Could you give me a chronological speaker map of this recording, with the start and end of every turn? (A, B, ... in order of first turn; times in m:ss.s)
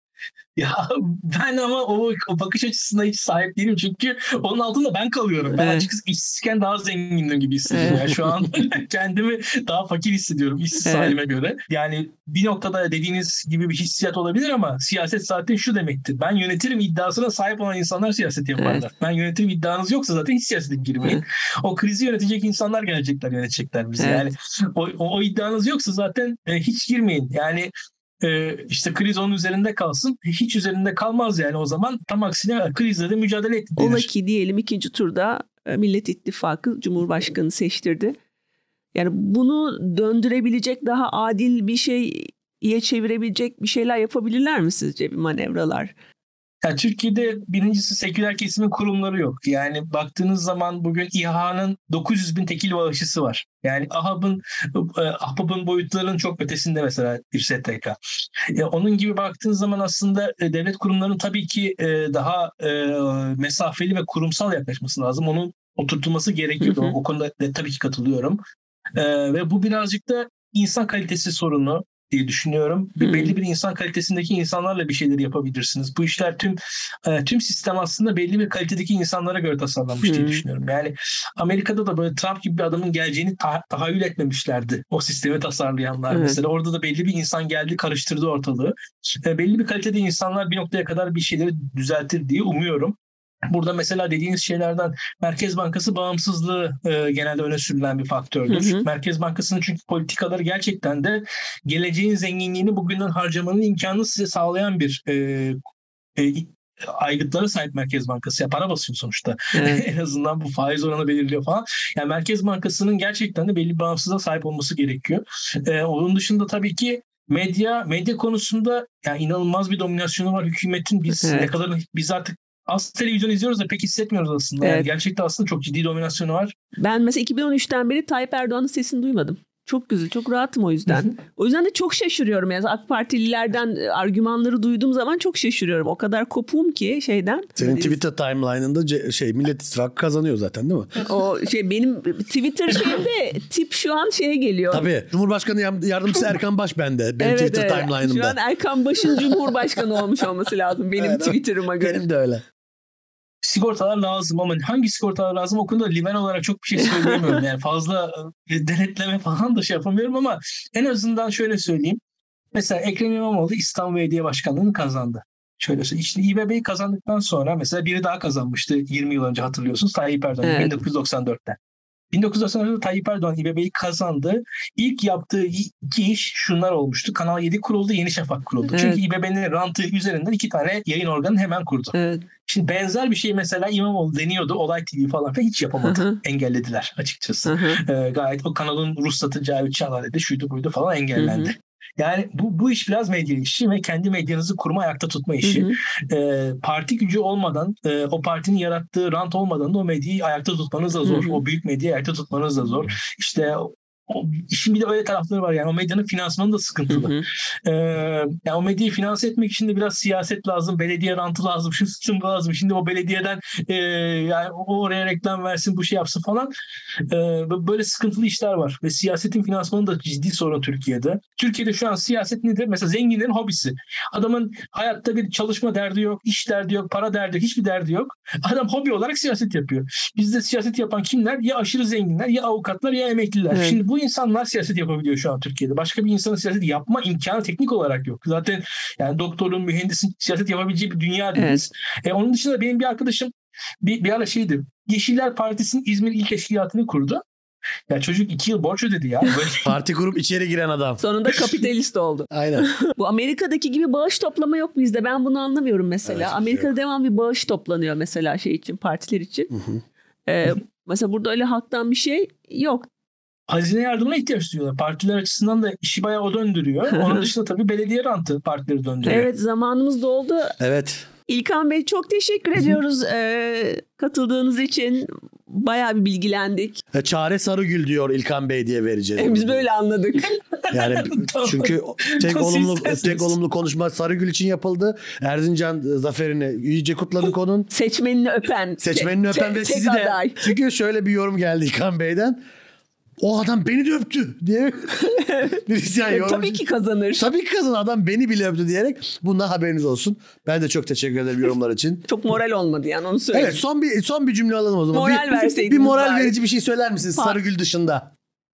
0:00.6-0:27.7 A
0:05.6-0:05.9 B
0:07.7-0:08.1 B
0:10.8-0:11.1 B
0:18.6-0:18.9 B
0:24.0-0:24.3 B
0:28.2-0:34.1 A
0:33.8-0:38.2 B
0:38.9-0:45.9 B
0:46.6-0:58.0 A
0:58.5-1:08.4 A
1:06.6-1:07.0 B
1:09.0-1:33.0 A
1:13.0-1:13.4 B
1:20.0-1:20.4 B
1:26.1-1:26.4 B
1:33.5-1:45.6 A
1:38.5-1:38.9 B
1:46.2-2:06.5 A
1:49.5-1:49.8 B
2:01.2-2:01.5 B
2:04.6-2:04.9 B
2:06.8-2:18.0 B
2:17.6-2:21.0 C
2:21.0-2:24.9 B
2:24.7-2:28.4 C
2:27.2-2:32.0 B
2:29.1-2:29.4 C
2:31.0-2:32.4 C
2:33.4-2:42.0 A
2:36.8-2:37.4 B
2:42.5-2:51.6 A
2:50.4-2:50.7 B
2:52.1-3:01.9 A
2:58.7-2:59.0 B
3:01.9-3:02.2 B
3:02.4-3:36.5 A
3:05.8-3:06.2 B
3:07.4-3:07.8 B
3:11.2-3:11.5 B
3:15.4-3:15.7 B
3:21.0-3:21.4 B
3:26.9-3:27.2 B
3:37.1-4:07.2 A
3:53.5-3:53.8 B
4:01.4-4:01.6 B
4:07.9-4:09.7 A
4:09.6-4:11.0 C
4:11.0-4:19.5 B
4:12.3-4:12.7 C
4:16.0-4:16.7 C
4:19.5-4:19.8 C
4:20.3-4:22.9 B
4:23.5-4:29.3 A
4:26.9-4:27.3 B
4:29.0-4:30.6 B
4:30.6-4:31.1 C
4:31.3-4:36.8 B
4:36.9-4:39.6 C
4:39.2-4:40.3 B
4:40.2-4:43.3 A
4:40.7-4:47.7 C
4:47.7-4:50.5 B
4:48.8-4:52.4 C
4:53.2-4:56.6 C
4:55.0-4:57.3 B
4:57.2-5:02.0 C
5:02.1-5:03.6 B
5:03.3-5:08.1 C
5:04.9-5:06.3 B